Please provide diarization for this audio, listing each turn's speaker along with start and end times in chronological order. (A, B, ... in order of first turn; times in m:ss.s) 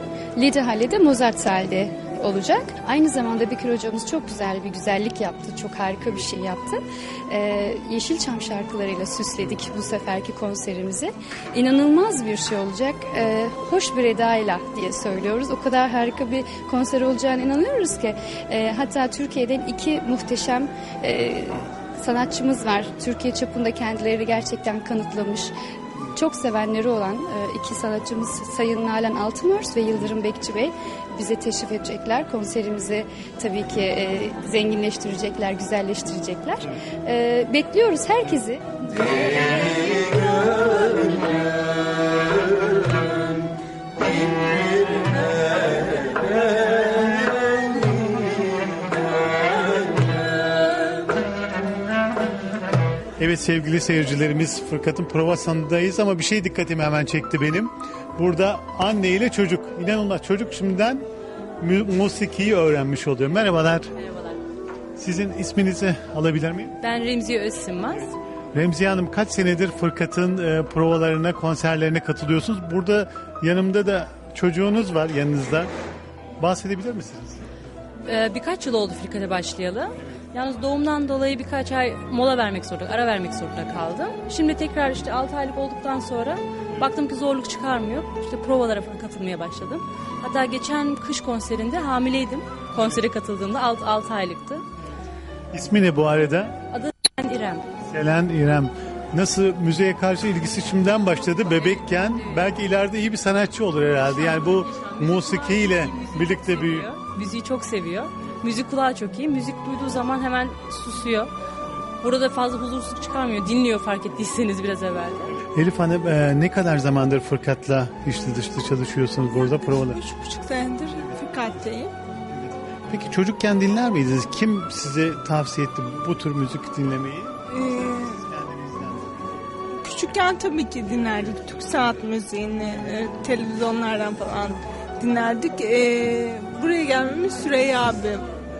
0:00.4-0:25.5 A
0:26.1-0:41.1 A
0:53.2-1:01.0 B
1:01.6-1:03.9 B
1:04.0-1:04.4 C
1:05.0-1:06.8 B
1:06.8-1:08.1 C
1:08.5-1:15.7 B
1:16.4-1:17.4 B
1:18.1-1:34.6 C
1:35.5-1:36.5 B
1:36.7-1:37.6 C
1:37.9-1:46.9 B
1:41.4-1:42.5 C
1:44.0-1:51.3 C
1:52.0-1:55.4 C
1:55.5-2:00.0 B
1:59.3-2:01.9 D
2:02.3-2:07.4 B
2:07.5-2:08.2 D
2:08.1-2:09.2 B
2:09.8-2:18.2 D